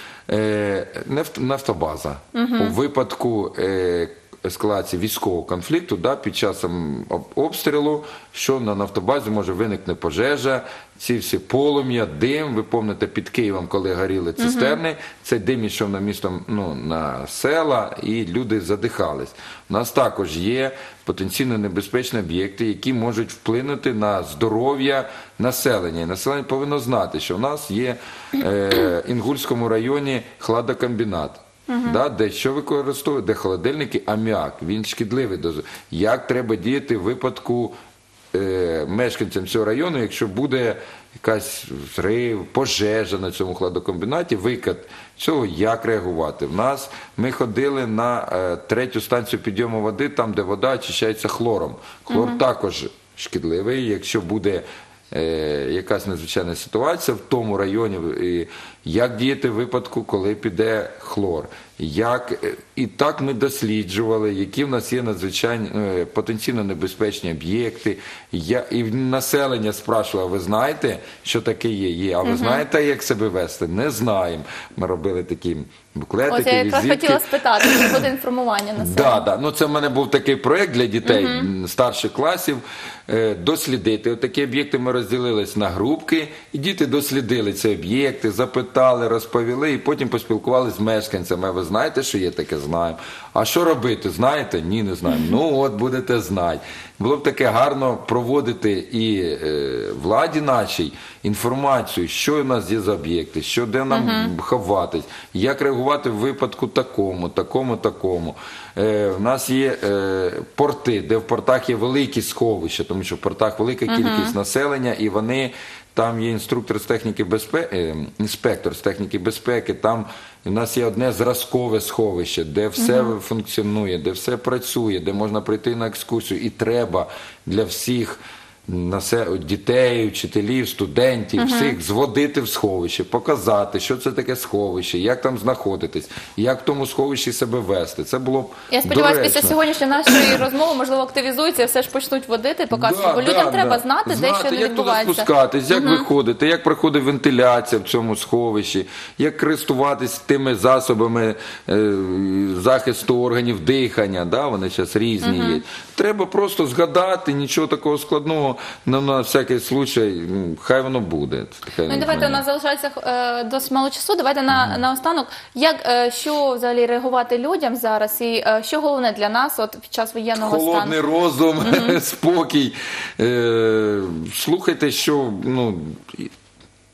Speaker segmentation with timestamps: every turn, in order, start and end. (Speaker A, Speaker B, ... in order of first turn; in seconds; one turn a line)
Speaker A: 0.3-37.8
Speaker B: 2.3-2.8
Speaker B: 14.4-14.8
Speaker B: 31.7-32.0
Speaker A: 38.3-78.0
Speaker B: 52.1-52.4
Speaker B: 72.2-72.6
Speaker B: 76.3-79.3
Speaker A: 78.8-140.4
Speaker B: 81.0-81.5
Speaker B: 95.1-95.3
Speaker B: 103.9-104.3
Speaker B: 113.9-114.3
Speaker B: 122.8-123.1
Speaker B: 131.4-131.8
Speaker B: 138.7-146.1
Speaker A: 142.7-162.4
Speaker B: 155.2-155.6
Speaker B: 161.9-171.0
Speaker A: 164.5-164.8
Speaker A: 170.4-176.3
Speaker B: 171.6-172.0